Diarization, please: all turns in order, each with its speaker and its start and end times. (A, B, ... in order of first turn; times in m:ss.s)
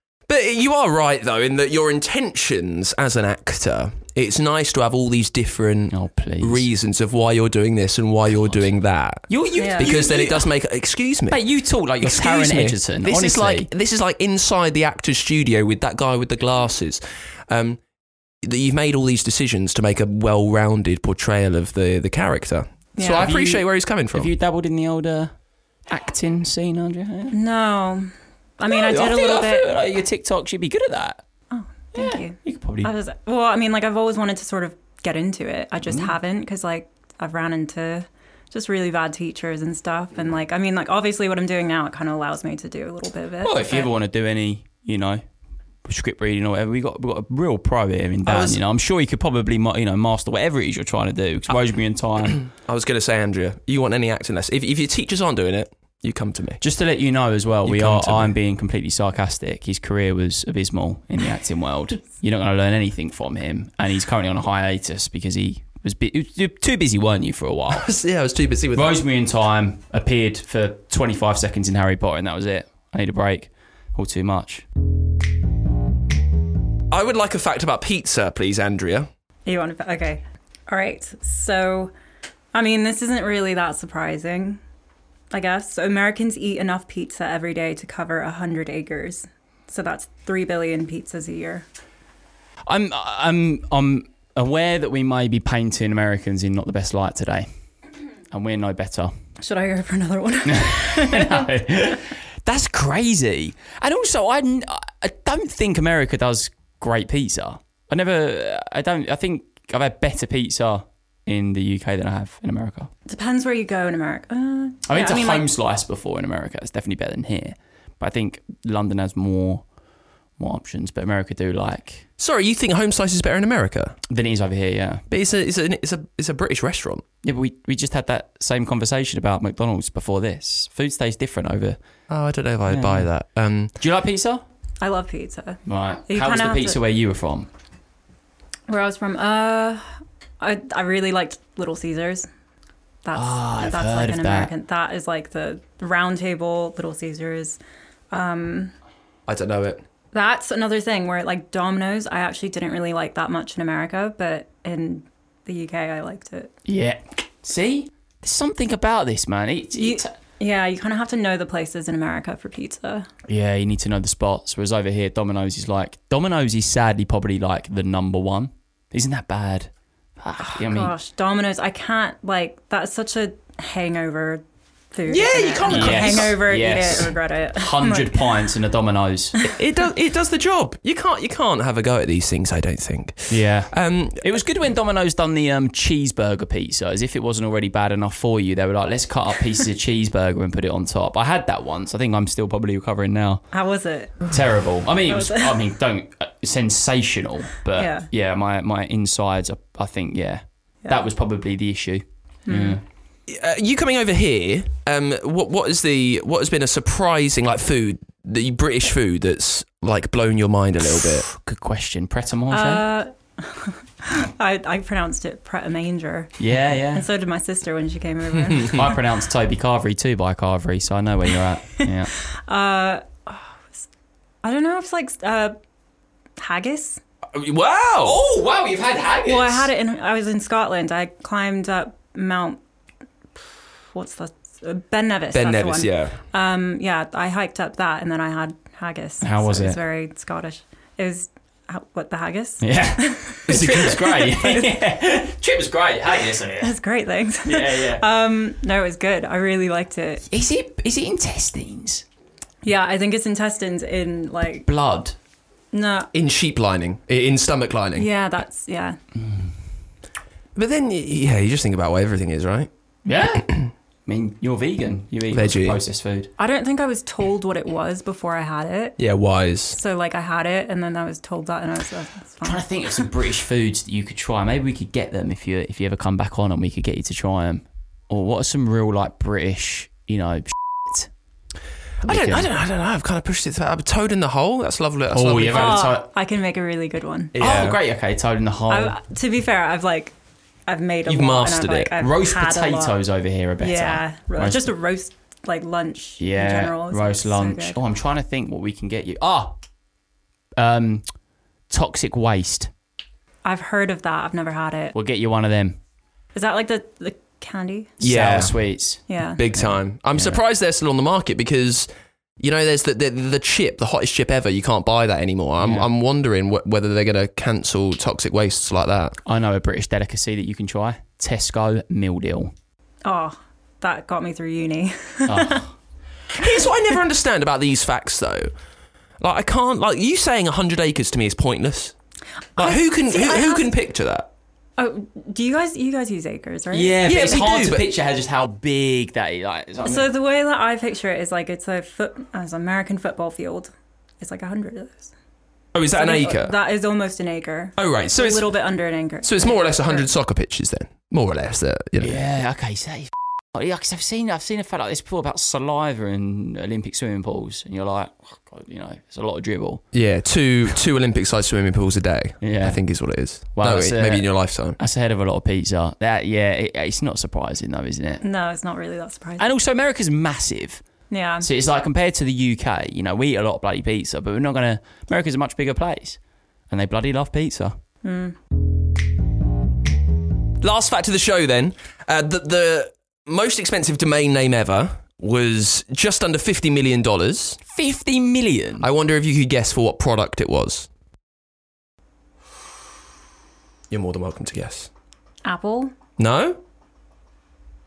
0:00.3-0:11.4 A
0:05.9-0:06.6 B
0:09.3-0:10.5 B
0:09.6-0:09.9 C
0:11.3-0:13.7 B
0:12.0-0:17.8 A
0:18.4-0:24.3 A
0:23.0-0:23.5 C
0:23.2-0:23.6 B
0:24.1-0:25.3 B
0:25.9-0:27.3 B
0:27.3-0:29.7 C
0:28.7-0:31.2 B
0:31.5-0:43.9 C
0:31.9-0:32.9 B
0:35.8-0:36.1 B
0:43.4-0:45.2 B
0:45.8-0:52.4 B
0:48.2-0:48.6 A
0:52.3-0:56.6 A
0:56.6-1:07.9 B
0:57.6-0:58.4 A
1:07.7-1:09.0 A
1:08.7-1:14.6 B
1:16.9-1:19.1 A
1:19.4-1:21.9 C
1:22.5-1:24.6 C
1:25.3-1:31.6 C
1:32.7-1:37.5 B
1:38.3-1:39.1 B
1:39.4-1:41.5 C
1:40.5-1:52.9 B
1:53.1-1:55.5 C
1:54.9-1:59.6 B
2:00.4-2:02.0 B
2:02.2-2:04.0 A
2:04.1-2:05.0 B
2:05.1-2:07.0 A
2:07.2-2:11.8 B
2:12.1-2:13.7 A
2:12.7-2:13.1 B
2:13.8-2:14.4 B
2:14.8-2:16.8 C
2:15.6-2:17.5 B
2:18.7-2:19.8 C
2:20.4-2:22.3 C
2:23.0-2:27.6 C
2:23.1-2:24.5 B
2:28.1-2:28.7 C
2:29.3-2:29.8 A
2:30.1-2:36.5 C
2:36.6-2:40.1 B
2:39.8-2:43.1 C
2:43.3-2:50.9 B
2:50.5-2:58.4 C
2:55.0-2:56.4 A
2:55.7-2:59.4 B
2:59.4-3:04.3 A
3:03.3-3:13.4 B
3:13.5-3:14.4 C
3:14.3-3:22.8 B
3:15.0-3:15.6 C
3:17.7-3:18.1 C
3:22.5-3:22.8 C
3:23.3-3:31.2 A
3:31.3-3:32.8 B
3:32.5-3:38.8 C
3:36.4-3:37.0 B
3:38.7-3:42.1 B
3:42.4-3:43.8 C
3:44.4-3:45.6 C
3:46.4-3:47.0 C
3:47.3-3:48.2 A
3:48.0-3:49.7 B
3:49.2-3:52.6 C
3:53.9-4:04.7 C
3:55.3-3:56.1 A
3:59.2-3:59.8 B
4:02.6-4:06.7 B
4:06.6-4:10.2 C
4:07.4-4:08.0 B
4:10.3-4:12.0 B
4:12.6-4:14.7 C
4:14.6-4:15.1 B
4:15.7-4:16.1 C
4:16.1-4:18.1 A
4:18.0-4:19.0 C
4:19.2-4:19.5 B
4:20.5-4:22.7 A
4:23.0-4:23.5 B
4:24.0-4:26.3 B
4:25.3-4:25.8 A
4:26.4-4:29.0 C
4:29.0-4:29.8 A
4:29.7-4:33.1 C
4:32.4-4:41.1 B
4:42.0-4:45.9 A
4:42.0-4:42.5 B
4:45.1-4:46.0 B
4:45.5-4:47.3 C
4:47.3-4:47.8 A
4:47.4-4:49.0 B
4:48.7-4:50.1 C
4:50.7-4:53.0 C
4:51.0-4:51.9 A
4:52.0-4:54.7 B
4:53.6-4:57.8 C
4:56.2-4:59.6 B
5:00.6-5:01.1 B
5:01.7-5:02.7 B
5:03.4-5:04.9 C
5:04.9-5:05.8 B
5:06.3-5:07.9 C
5:08.0-5:10.4 B
5:08.0-5:08.6 A
5:09.1-5:09.4 C
5:09.4-5:11.9 A
5:12.4-5:19.2 A
5:15.6-5:15.9 B
5:19.2-5:22.5 B
5:23.0-5:25.6 C
5:25.2-5:25.7 B
5:26.3-5:28.5 A
5:29.2-5:31.9 A
5:32.6-5:33.7 C
5:32.6-5:34.3 A
5:34.8-5:37.4 C
5:36.7-5:40.1 B
5:37.0-5:37.8 A
5:39.8-5:45.1 C
5:45.7-5:46.5 A
5:45.9-5:50.1 C
5:47.8-5:48.6 A
5:49.2-5:52.2 A
5:52.0-5:59.8 B
5:59.9-6:04.8 A
6:02.4-6:02.8 B
6:03.5-6:08.2 B
6:08.2-6:09.4 C
6:09.4-6:10.8 B
6:11.1-6:11.5 C
6:11.4-6:16.2 B
6:16.7-6:17.8 B
6:18.0-6:18.4 C
6:20.6-6:27.6 A
6:27.7-6:28.9 B
6:28.8-6:30.9 A
6:33.9-6:34.9 A
6:35.4-6:35.9 C
6:36.2-6:36.6 A